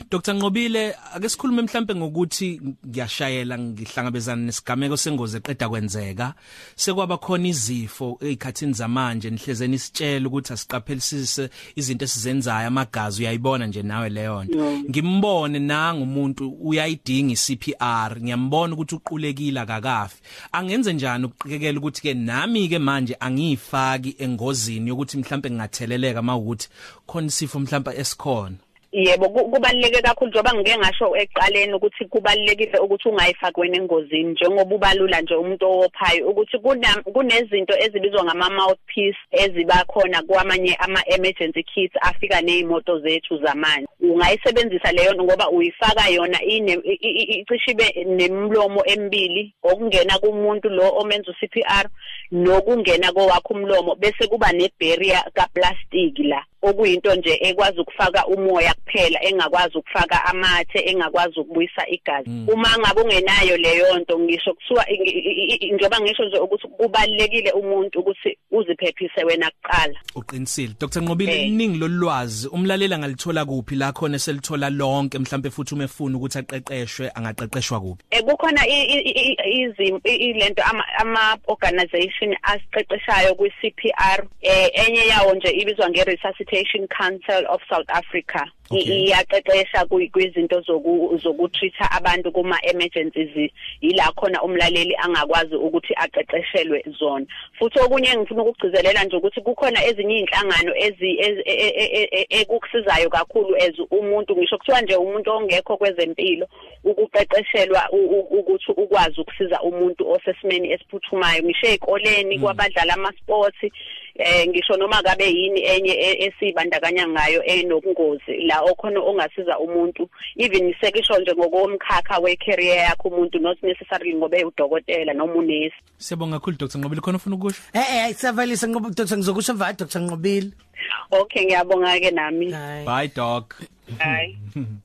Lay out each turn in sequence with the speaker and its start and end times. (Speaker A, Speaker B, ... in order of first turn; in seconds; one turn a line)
Speaker A: 0.1-28.6
Speaker B: 14.5-14.9
Speaker B: 28.9-70.0
Speaker A: 70.2-78.0
Speaker B: 71.3-71.5
Speaker B: 78.1-125.8
Speaker A: 88.7-89.0
Speaker A: 126.0-127.6
Speaker C: 127.7-130.5
Speaker B: 131.1-132.6
Speaker C: 132.5-132.9
Speaker A: 132.8-134.7
Speaker B: 134.0-134.3